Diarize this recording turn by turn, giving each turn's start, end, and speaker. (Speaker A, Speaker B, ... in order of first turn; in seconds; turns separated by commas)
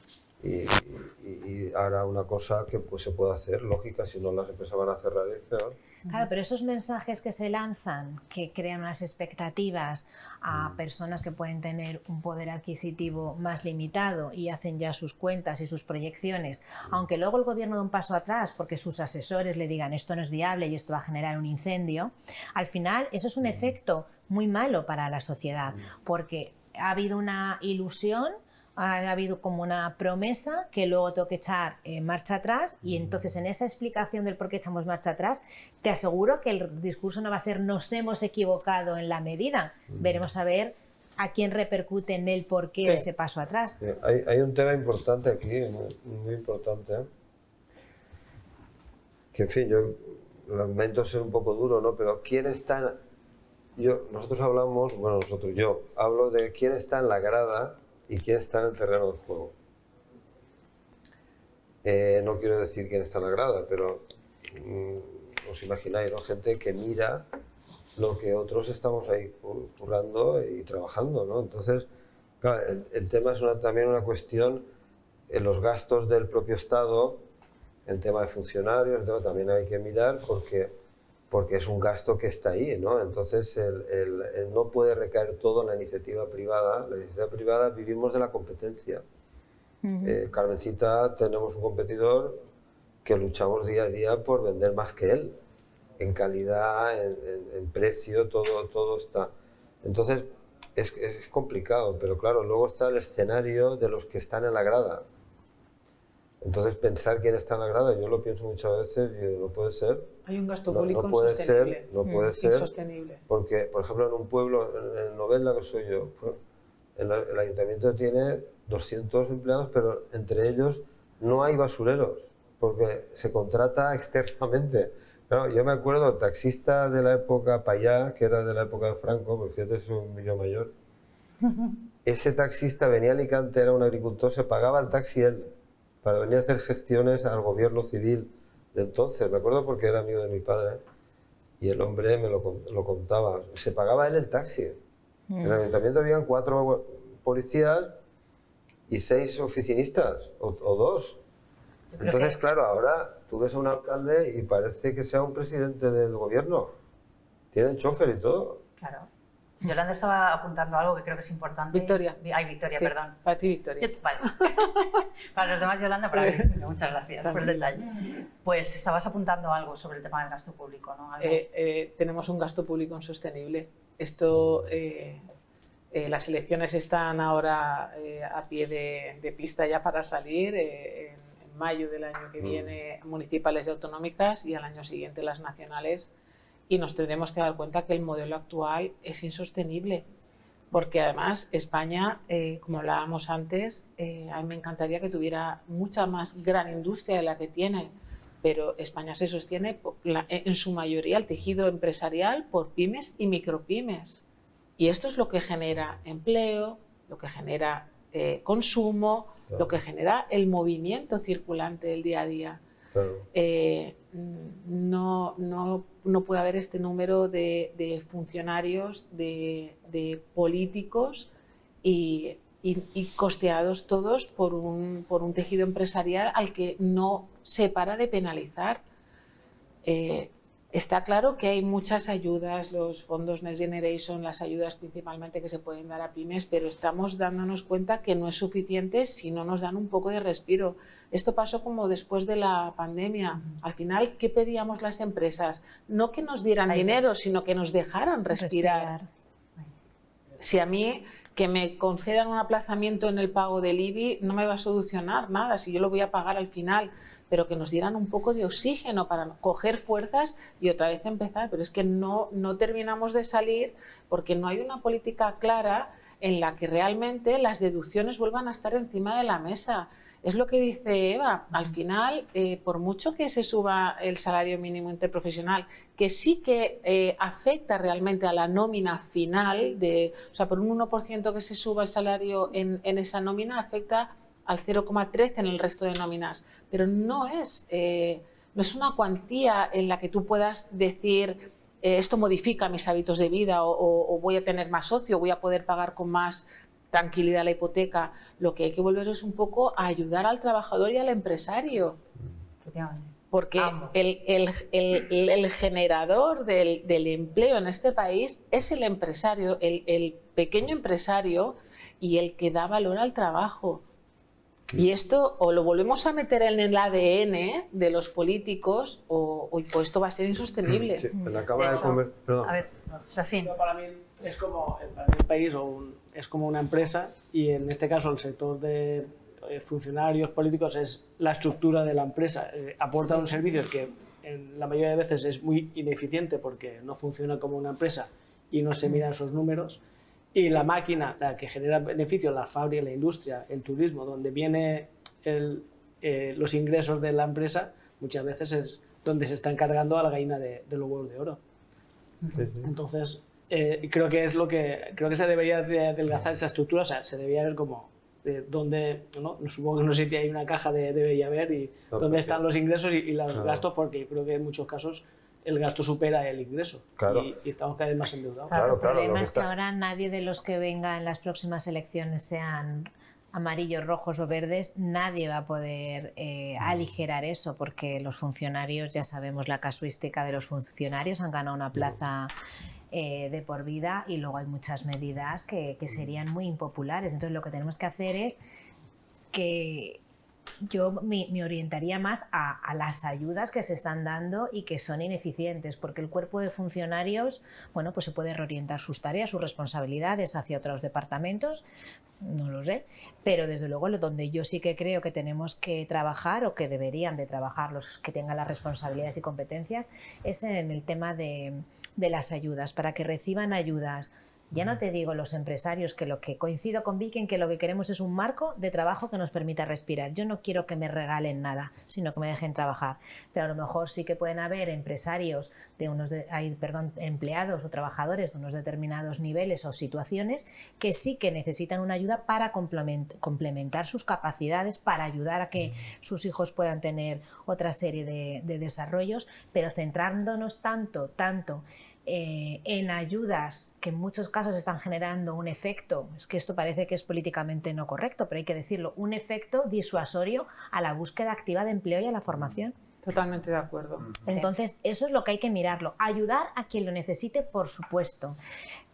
Speaker A: 0.4-5.8, Speaker B: 6.1-43.8, Speaker A: 10.5-10.8, Speaker A: 39.9-40.2, Speaker A: 43.8-47.1, Speaker A: 49.3-53.0, Speaker A: 53.8-59.5, Speaker A: 61.8-67.2, Speaker A: 68.0-71.8, Speaker A: 72.4-74.7, Speaker A: 75.3-77.2, Speaker A: 77.8-80.7, Speaker A: 81.3-89.0, Speaker B: 89.8-90.2, Speaker A: 90.0-92.4, Speaker A: 93.0-95.3, Speaker A: 96.0-99.3, Speaker A: 99.8-105.0, Speaker A: 106.4-110.2, Speaker C: 110.2-113.2, Speaker A: 110.7-112.8, Speaker A: 113.3-116.4, Speaker A: 117.0-130.7, Speaker A: 132.0-135.5, Speaker A: 136.0-140.8, Speaker A: 141.6-144.8, Speaker B: 145.3-145.6, Speaker A: 145.4-147.9, Speaker A: 148.9-151.2, Speaker D: 151.9-152.4, Speaker A: 152.0-156.7, Speaker A: 157.5-158.6, Speaker D: 158.8-159.1, Speaker D: 159.6-163.2, Speaker C: 161.7-162.2, Speaker C: 162.7-164.9, Speaker D: 163.8-171.4, Speaker C: 166.1-166.5, Speaker C: 167.2-167.6, Speaker C: 171.2-175.2, Speaker C: 175.9-186.1, Speaker A: 182.4-182.7, Speaker C: 186.7-190.0, Speaker C: 190.7-204.2, Speaker C: 204.8-212.6, Speaker A: 212.9-213.2, Speaker C: 213.3-221.3, Speaker C: 221.8-228.8, Speaker C: 229.8-248.9, Speaker D: 246.7-247.0, Speaker B: 248.3-249.1, Speaker C: 250.4-302.0, Speaker D: 302.6-303.9, Speaker C: 303.3-313.8, Speaker C: 314.7-321.1, Speaker A: 320.9-322.7, Speaker D: 321.5-323.5, Speaker E: 323.4-339.8, Speaker E: 340.3-351.4, Speaker A: 352.4-352.7, Speaker E: 352.6-368.5, Speaker A: 361.9-362.4, Speaker A: 363.3-363.6, Speaker A: 367.0-367.3, Speaker A: 368.5-369.5, Speaker B: 368.5-382.3, Speaker B: 382.9-388.4, Speaker B: 389.3-390.0, Speaker B: 390.7-401.6, Speaker B: 402.2-452.8, Speaker C: 453.0-454.2, Speaker B: 454.2-458.4